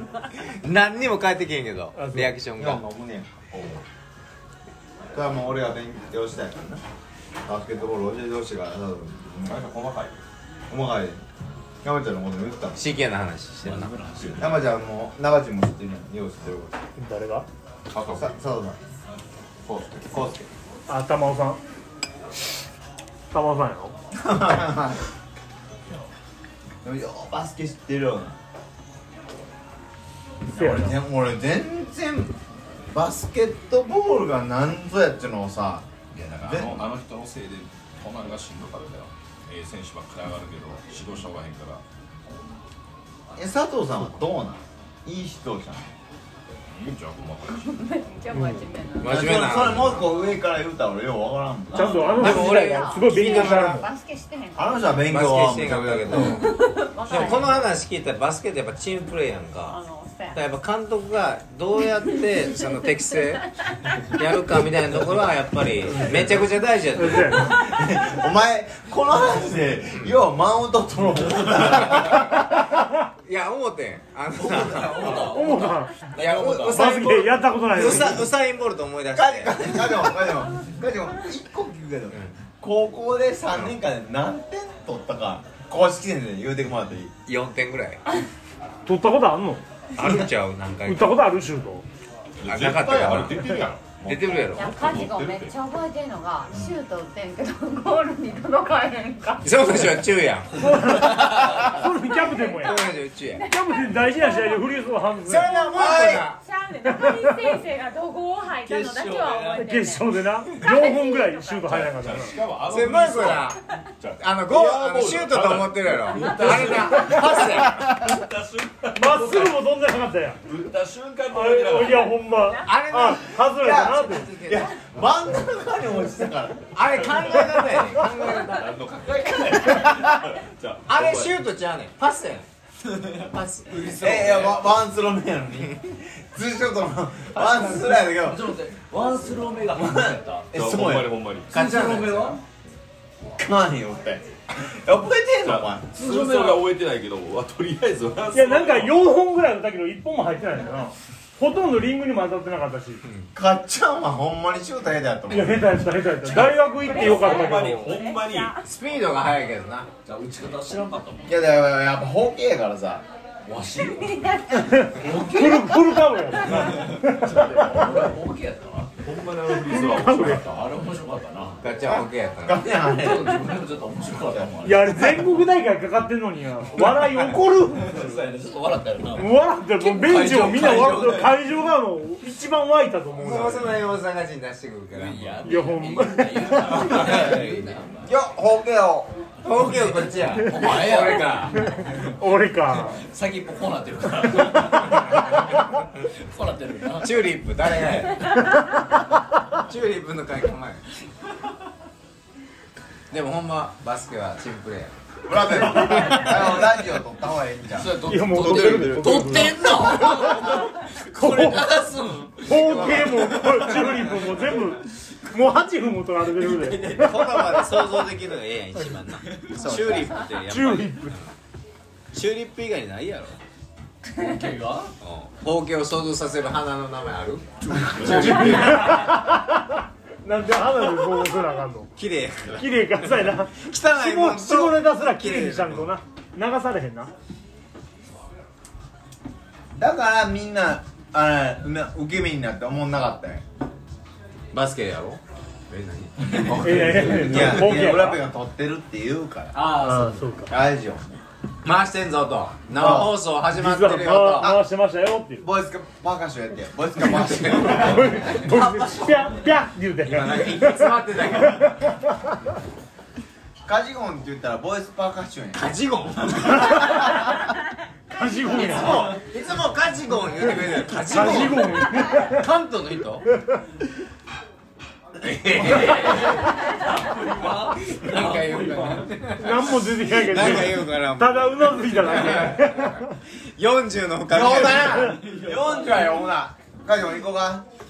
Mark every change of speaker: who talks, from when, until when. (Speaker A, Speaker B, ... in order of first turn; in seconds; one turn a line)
Speaker A: 0.6-2.8
Speaker B: 2.0-2.3
Speaker C: 2.6-3.8
Speaker C: 5.1-6.8
Speaker C: 7.5-9.7
Speaker D: 9.4-10.2
Speaker C: 10.7-11.2
Speaker C: 11.8-12.8
Speaker A: 12.7-13.9
Speaker E: 13.6-14.4
Speaker D: 14.1-14.7
Speaker C: 14.4-16.7
Speaker B: 17.0-17.5
Speaker D: 17.9-18.4
Speaker C: 18.1-18.8
Speaker D: 19.6-20.2
Speaker C: 20.1-20.5
Speaker B: 20.9-21.6
Speaker B: 23.3-23.9
Speaker C: 24.1-25.0
Speaker C: 26.8-28.4
Speaker C: 30.5-32.3
Speaker B: 30.5-31.0
Speaker C: 32.9-35.9
Speaker D: 36.1-41.8
Speaker C: 36.4-36.9
Speaker C: 43.4-45.9
Speaker D: 46.7-47.9
Speaker F: 47.5-49.4
Speaker B: 48.3-48.6
Speaker A: 49.0-50.1
Speaker C: 49.0-52.6
Speaker B: 51.7-53.9
Speaker F: 51.8-55.1
Speaker A: 52.1-53.8
Speaker C: 54.5-56.5
Speaker A: 55.1-56.5
Speaker F: 56.3-57.7
Speaker A: 57.1-59.8
Speaker F: 59.6-60.4
Speaker A: 60.3-63.5
Speaker A: 64.0-67.4
Speaker C: 66.0-66.3
Speaker B: 67.0-67.5
Speaker C: 67.2-72.8
Speaker A: 71.6-72.3
Speaker A: 73.2-80.1
Speaker E: 74.3-76.9
Speaker B: 75.2-76.0
Speaker B: 76.6-78.2
Speaker C: 77.7-78.3
Speaker C: 79.2-87.1
Speaker A: 87.3-88.0
Speaker B: 88.8-89.6
Speaker A: 90.0-91.2
Speaker C: 90.0-90.2
Speaker B: 90.8-91.8
Speaker D: 92.4-95.5
Speaker A: 92.5-93.5
Speaker A: 94.0-94.7
Speaker F: 94.5-99.7
Speaker A: 99.4-101.8
Speaker B: 100.5-105.6
Speaker F: 102.1-104.6
Speaker A: 102.6-103.4
Speaker A: 105.2-106.4
Speaker F: 105.5-105.8
Speaker C: 105.5-106.3
Speaker F: 106.3-111.6
Speaker B: 106.8-107.5
Speaker E: 108.6-109.7
Speaker B: 109.5-112.4
Speaker D: 111.6-119.6
Speaker A: 112.7-113.6
Speaker A: 114.2-118.0
Speaker E: 116.2-116.9
Speaker B: 118.9-120.4
Speaker D: 120.4-122.2
Speaker B: 121.3-124.4
Speaker A: 122.6-124.7
Speaker C: 123.5-126.7
Speaker A: 126.7-130.0
Speaker D: 127.0-131.3
Speaker A: 130.9-132.5
Speaker A: 133.1-134.3
Speaker E: 133.7-134.6
Speaker C: 133.9-138.5
Speaker E: 137.4-140.5
Speaker C: 139.7-142.4
Speaker D: 140.5-141.7
Speaker A: 141.5-142.3
Speaker E: 141.6-142.4
Speaker C: 143.4-145.9
Speaker D: 145.4-148.9
Speaker E: 145.9-146.7
Speaker B: 148.3-153.0
Speaker A: 153.0-153.3
Speaker C: 153.3-155.8
Speaker B: 155.3-158.0
Speaker D: 156.2-158.6
Speaker F: 156.7-158.6
Speaker A: 158.6-159.9
Speaker E: 160.0-161.4
Speaker C: 161.2-163.0
Speaker E: 163.4-164.1
Speaker F: 163.9-165.5
Speaker B: 164.8-168.1
Speaker E: 164.9-168.9
Speaker D: 169.0-170.7
Speaker B: 169.5-170.4
Speaker E: 170.4-171.6
Speaker A: 171.6-172.7
Speaker C: 171.8-173.6
Speaker E: 172.8-175.2
Speaker C: 174.3-174.5
Speaker B: 174.6-178.2
Speaker E: 177.7-181.4
Speaker B: 179.1-183.8
Speaker A: 183.2-185.5
Speaker E: 184.9-187.9
Speaker B: 185.4-187.1
Speaker A: 186.9-187.7
Speaker C: 188.0-189.1
Speaker A: 189.4-191.8
Speaker E: 189.6-191.6
Speaker B: 191.6-193.0
Speaker E: 192.9-195.7
Speaker E: 196.2-197.2
Speaker A: 197.0-198.6
Speaker A: 199.5-200.8
Speaker A: 203.1-204.9
Speaker C: 205.3-208.0
Speaker A: 206.0-206.3
Speaker A: 207.8-210.2
Speaker B: 208.0-210.4
Speaker E: 208.1-213.7
Speaker B: 211.2-211.6
Speaker A: 211.2-214.1
Speaker B: 212.5-217.2
Speaker E: 216.4-217.8
Speaker A: 216.9-221.3
Speaker E: 219.4-220.1
Speaker B: 220.4-221.2
Speaker A: 222.1-223.4
Speaker E: 224.1-224.9
Speaker A: 225.0-228.9
Speaker E: 227.7-229.0
Speaker B: 228.1-231.9
Speaker A: 231.9-235.9
Speaker B: 232.5-237.1
Speaker C: 239.7-243.4
Speaker A: 244.5-247.8
Speaker E: 246.2-247.4
Speaker B: 246.6-248.2
Speaker C: 247.2-249.7
Speaker E: 249.5-250.3
Speaker B: 249.8-250.5
Speaker C: 250.5-251.2
Speaker A: 251.6-254.6
Speaker C: 252.7-253.1
Speaker B: 253.5-255.5
Speaker C: 254.4-254.7
Speaker C: 255.4-258.3
Speaker A: 257.1-258.4
Speaker B: 257.8-262.3
Speaker E: 258.3-259.5
Speaker A: 260.0-261.9
Speaker C: 263.6-265.7
Speaker A: 265.6-267.3
Speaker B: 266.6-267.2
Speaker B: 268.1-269.2
Speaker A: 268.5-273.2
Speaker B: 270.9-272.4
Speaker A: 275.2-276.7
Speaker E: 275.5-279.1
Speaker A: 277.9-285.1
Speaker B: 279.4-283.1
Speaker C: 284.3-287.6
Speaker E: 285.1-286.3